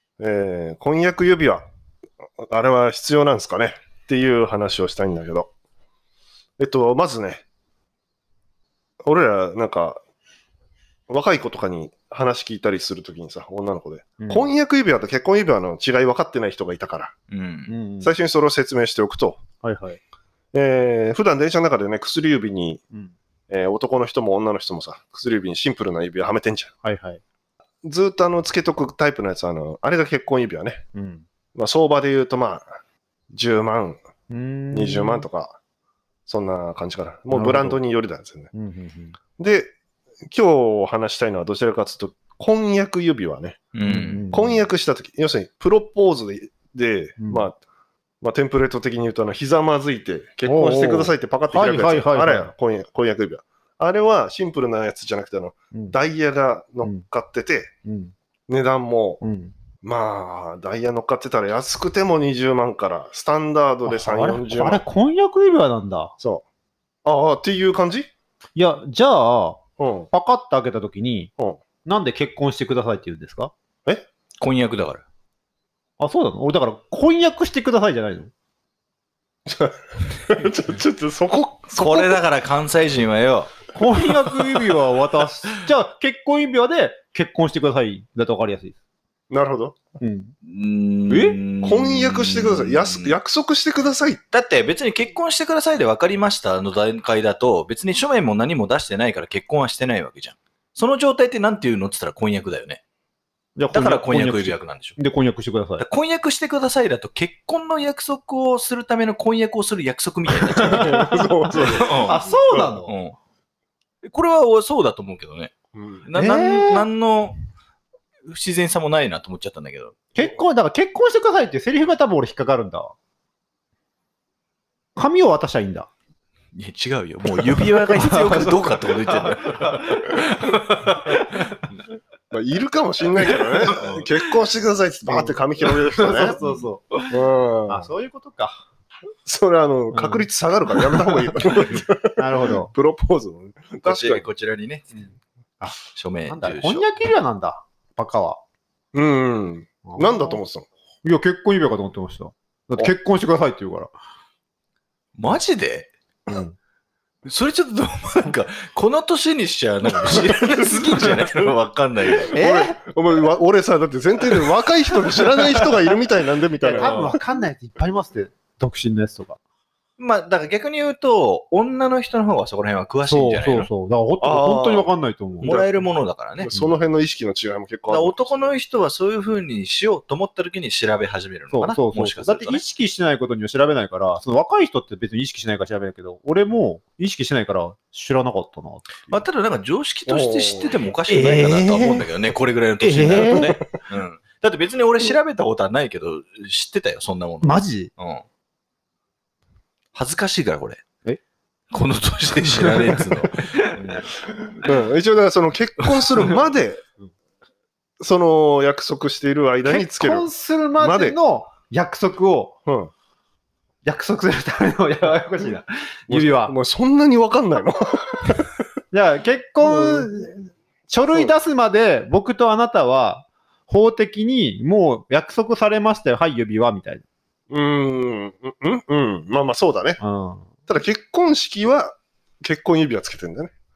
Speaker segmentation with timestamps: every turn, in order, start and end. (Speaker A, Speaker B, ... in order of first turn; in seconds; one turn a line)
Speaker A: 0.2-1.6
Speaker A: 2.4-5.5
Speaker A: 6.6-7.4
Speaker A: 9.0-10.0
Speaker A: 11.1-17.1
Speaker B: 14.2-14.5
Speaker C: 17.3-17.7
Speaker B: 17.7-18.1
Speaker A: 18.0-19.4
Speaker B: 19.6-20.0
Speaker A: 20.5-22.8
Speaker A: 23.5-26.7
Speaker B: 26.8-27.2
Speaker A: 27.8-30.8
Speaker B: 30.9-31.2
Speaker A: 31.6-32.6
Speaker A: 33.3-34.0
Speaker B: 34.3-35.3
Speaker A: 34.7-35.6
Speaker A: 36.3-38.5
Speaker B: 37.3-37.8
Speaker B: 38.5-39.2
Speaker A: 39.4-39.7
Speaker A: 40.2-43.7
Speaker C: 43.7-44.2
Speaker B: 43.9-44.6
Speaker A: 44.3-47.5
Speaker B: 47.2-47.5
Speaker A: 48.2-57.7
Speaker B: 50.5-52.5
Speaker B: 57.8-58.1
Speaker A: 58.5-59.2
Speaker B: 59.2-59.5
Speaker A: 59.8-64.8
Speaker B: 63.9-66.1
Speaker A: 67.0-68.1
Speaker B: 68.5-71.3
Speaker A: 69.8-70.1
Speaker B: 71.8-73.5
Speaker C: 74.4-75.0
Speaker B: 76.0-78.3
Speaker A: 79.5-82.2
Speaker C: 81.7-83.5
Speaker B: 83.7-88.8
Speaker A: 89.3-89.8
Speaker B: 90.0-90.3
Speaker C: 90.4-93.1
Speaker B: 91.1-91.4
Speaker A: 91.6-94.2
Speaker C: 94.3-102.8
Speaker B: 103.5-105.8
Speaker C: 103.7-105.0
Speaker C: 105.8-112.2
Speaker B: 110.5-112.9
Speaker A: 110.6-112.8
Speaker C: 112.8-113.2
Speaker C: 114.0-115.5
Speaker A: 115.7-116.1
Speaker C: 116.0-117.4
Speaker B: 116.1-116.9
Speaker C: 118.3-120.0
Speaker B: 120.1-122.9
Speaker B: 125.0-125.9
Speaker C: 126.5-131.6
Speaker B: 127.3-131.6
Speaker A: 132.3-136.4
Speaker C: 133.3-134.1
Speaker B: 135.1-138.6
Speaker C: 136.4-136.7
Speaker A: 137.1-137.9
Speaker A: 139.2-144.2
Speaker B: 139.9-142.7
Speaker C: 143.8-145.1
Speaker C: 145.9-146.9
Speaker B: 146.3-148.4
Speaker A: 148.9-150.7
Speaker B: 149.8-150.4
Speaker B: 151.0-153.9
Speaker C: 155.2-155.9
Speaker B: 156.3-156.6
Speaker C: 157.2-162.3
Speaker A: 160.2-161.2
Speaker A: 162.3-167.2
Speaker B: 162.3-162.8
Speaker B: 165.4-165.7
Speaker C: 166.6-167.0
Speaker B: 166.7-169.4
Speaker C: 170.0-173.7
Speaker B: 173.1-175.6
Speaker A: 174.2-174.9
Speaker C: 175.4-176.5
Speaker A: 175.4-175.8
Speaker A: 176.4-178.6
Speaker C: 177.9-182.6
Speaker B: 181.5-189.2
Speaker C: 189.1-198.2
Speaker A: 190.1-190.8
Speaker B: 191.1-192.1
Speaker B: 192.8-193.6
Speaker A: 193.2-193.4
Speaker B: 197.4-197.9
Speaker C: 199.9-200.8
Speaker C: 201.7-204.0
Speaker B: 202.5-204.0
Speaker A: 204.5-206.8
Speaker A: 208.0-210.3
Speaker B: 209.6-212.6
Speaker A: 210.8-211.2
Speaker A: 212.7-212.9
Speaker B: 213.8-216.6
Speaker A: 216.1-218.5
Speaker B: 218.9-227.1
Speaker A: 219.6-220.1
Speaker A: 227.5-230.0
Speaker B: 230.0-230.5
Speaker A: 230.7-233.5